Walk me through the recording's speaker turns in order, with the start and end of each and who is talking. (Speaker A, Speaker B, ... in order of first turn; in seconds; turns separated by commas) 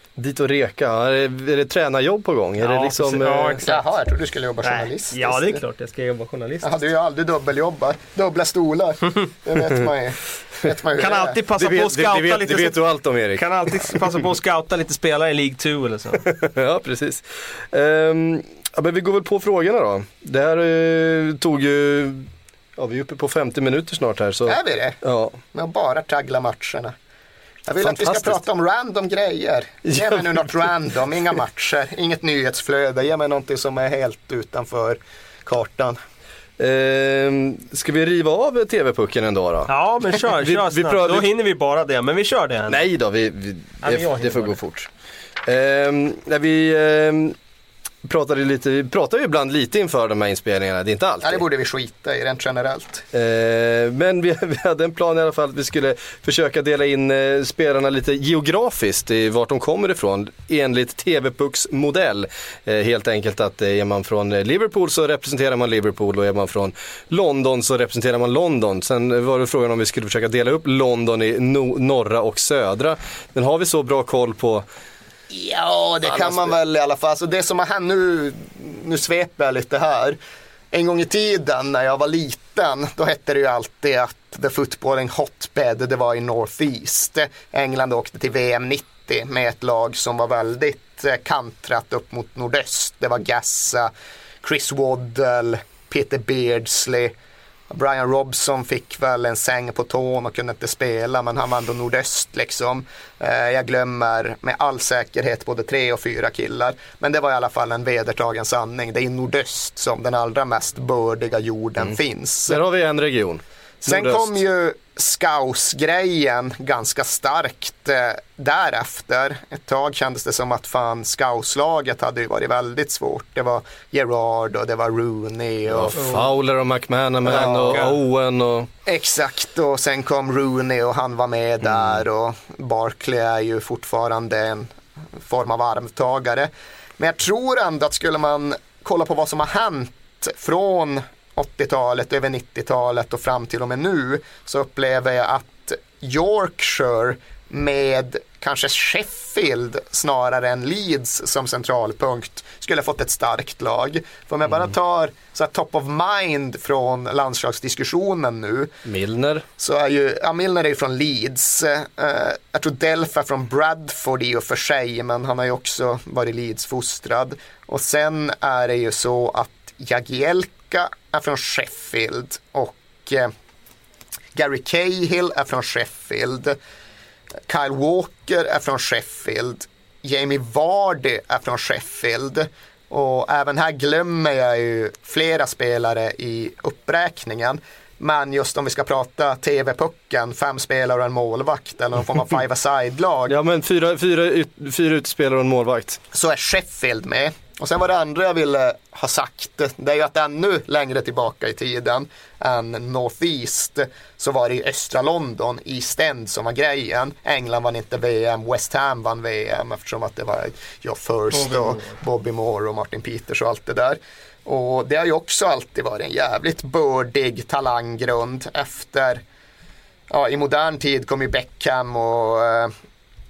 Speaker A: 0.2-3.6, Speaker B: 2.6-3.8, Speaker C: 3.6-5.6, Speaker B: 4.6-6.8, Speaker C: 6.6-11.4, Speaker B: 11.0-16.2, Speaker A: 11.6-14.0, Speaker A: 16.2-25.4, Speaker C: 24.5-25.0, Speaker C: 25.5-26.9, Speaker C: 27.7-36.0, Speaker A: 27.8-28.4, Speaker A: 29.9-30.3, Speaker A: 36.6-39.7, Speaker B: 39.7-42.8, Speaker A: 40.2-41.3, Speaker A: 42.7-44.9, Speaker B: 43.8-44.6, Speaker A: 45.5-47.4, Speaker A: 48.0-51.4, Speaker C: 51.2-53.0, Speaker A: 53.1-74.7, Speaker C: 75.3-80.2, Speaker C: 80.7-93.9, Speaker C: 94.4-97.1, Speaker C: 97.7-112.6, Speaker A: 111.8-114.4, Speaker C: 113.8-126.2, Speaker A: 125.7-128.7, Speaker B: 126.0-126.3, Speaker C: 127.2-127.9, Speaker B: 127.6-127.9, Speaker C: 128.9-158.7, Speaker A: 158.9-159.4, Speaker C: 159.6-173.3, Speaker C: 174.3-176.6, Speaker C: 177.5-193.4, Speaker A: 193.3-196.0, Speaker C: 196.1-219.2, Speaker B: 211.3-212.0, Speaker C: 220.1-222.7